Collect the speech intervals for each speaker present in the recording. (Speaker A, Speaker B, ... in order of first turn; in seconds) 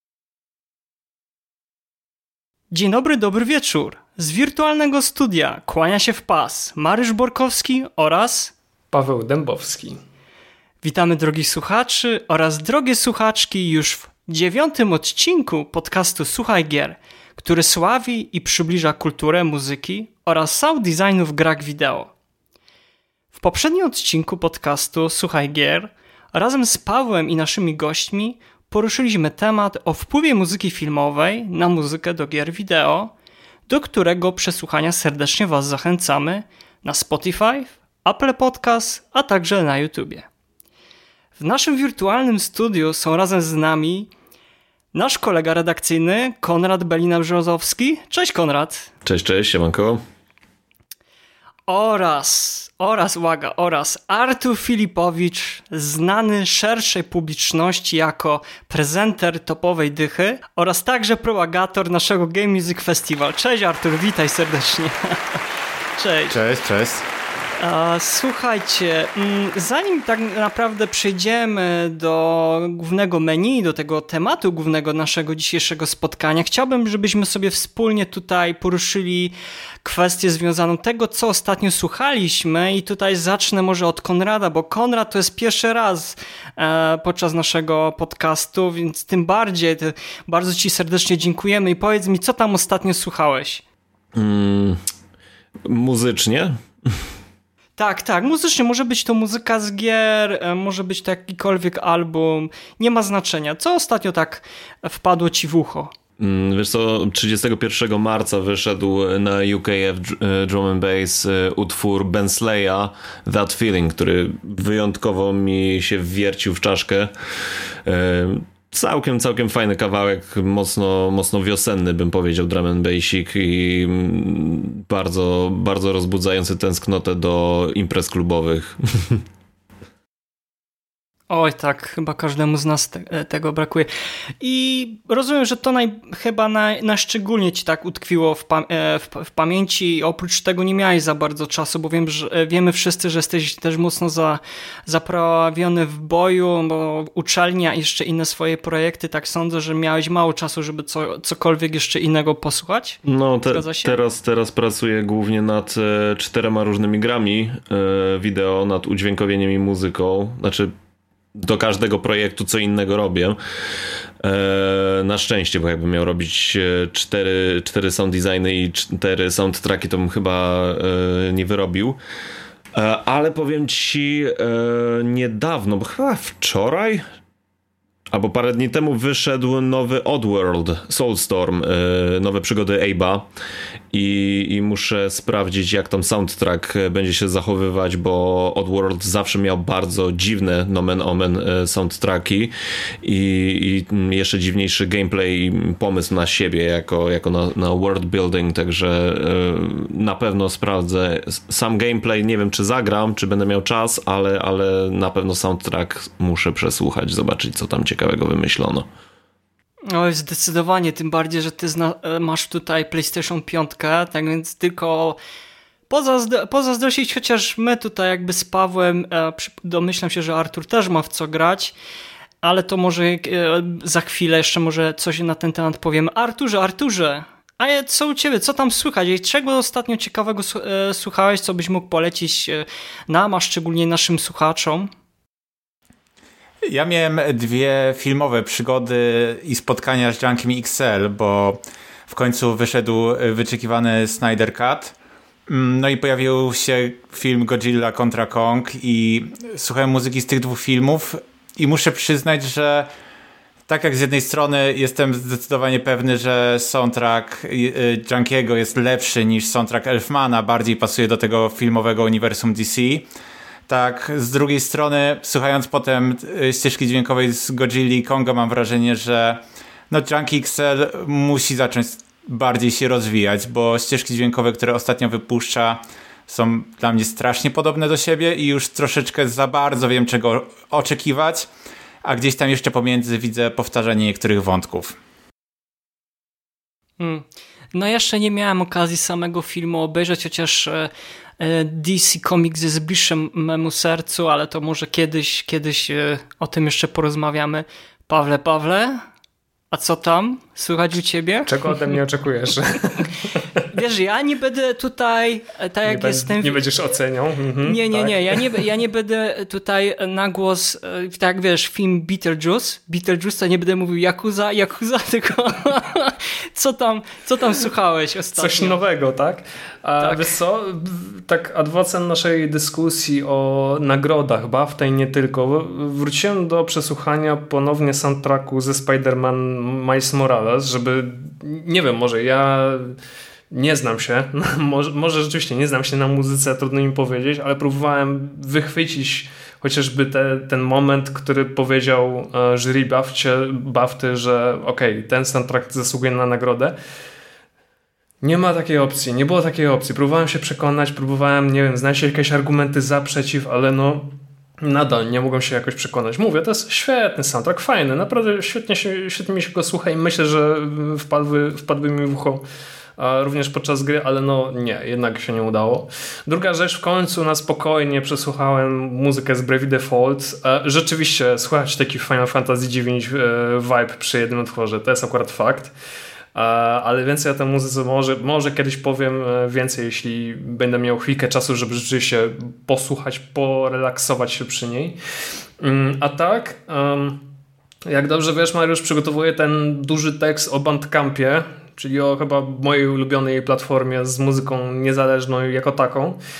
Speaker A: 2.7-8.5, 10.8-22.1, 23.3-33.1, 33.7-40.2, 41.4-44.1, 44.9-48.9, 51.7-65.2, 66.0-66.3, 67.6-93.6, 97.8-105.9, 131.3-133.9, 134.4-154.0, 209.9-215.2, 215.9-221.7, 222.4-234.9, 287.0-299.0, 299.7-301.5, 303.7-306.6, 307.6-318.8, 320.0-320.3
Speaker B: 8.9-10.0, 301.5-303.4, 305.9-308.4, 318.4-332.9, 333.5-346.8, 348.2-362.4, 363.0-375.7, 376.3-385.0, 385.6-387.3, 387.9-396.2
Speaker C: 49.0-50.0, 94.1-94.8, 95.7-97.0, 106.2-117.1, 117.8-129.2, 153.0-160.7, 161.3-163.4, 164.2-172.0, 172.7-177.0, 178.1-183.3, 183.9-192.5, 193.0-208.8
Speaker D: 66.3-67.0, 236.7-244.9, 245.5-252.9, 253.7-263.1, 263.7-281.5, 282.0-284.9